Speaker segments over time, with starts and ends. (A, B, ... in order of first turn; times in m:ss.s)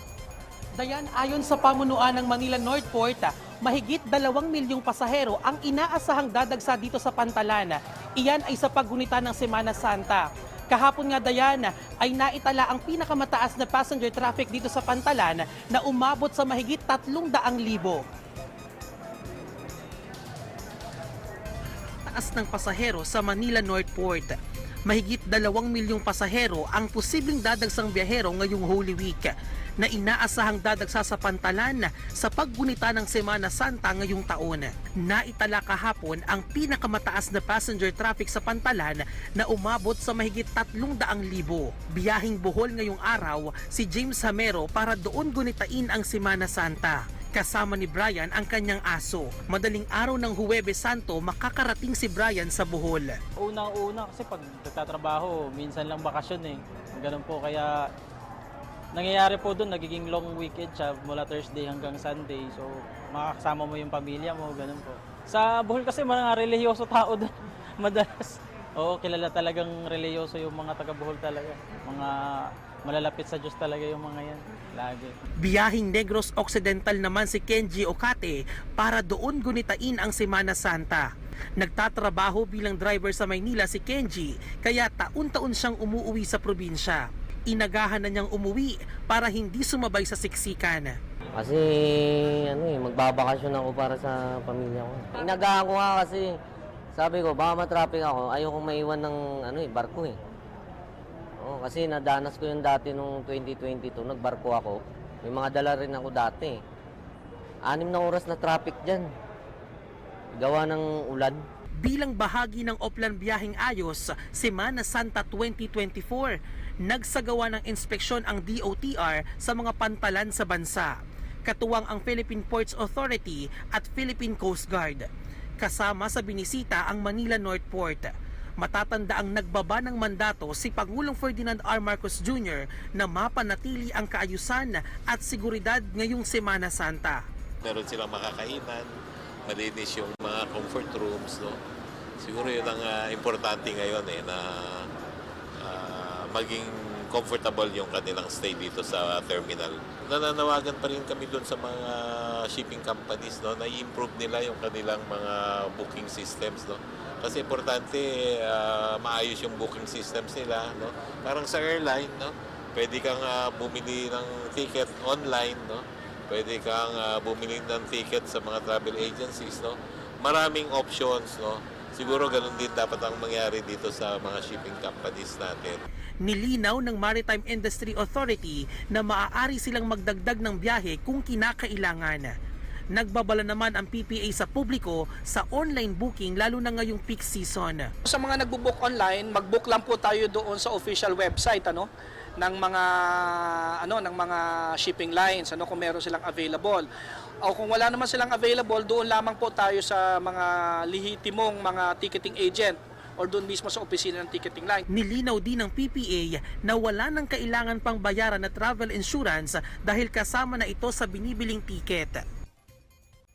0:00.8-0:18.0 A
0:22.0-0:53.2 A
0:53.4-0:57.8 B
0:58.9-1:15.1 B
1:15.4-1:21.1 A
1:21.6-1:31.0 A
1:31.4-1:36.3 C
1:36.9-1:40.2 C
1:41.4-1:46.6 C
1:47.7-1:49.1 C
1:50.4-1:51.4 C
1:51.8-2:00.9 A
2:01.4-2:17.2 A
2:17.6-2:18.9 D
2:19.5-2:21.6 D
2:22.2-2:24.9 D
2:25.6-2:55.8 D
2:56.2-3:02.3 A
3:02.9-3:07.9 A
3:08.0-3:11.9 E
3:12.4-3:16.9 E
3:17.4-3:24.8 E
3:24.9-3:32.2 A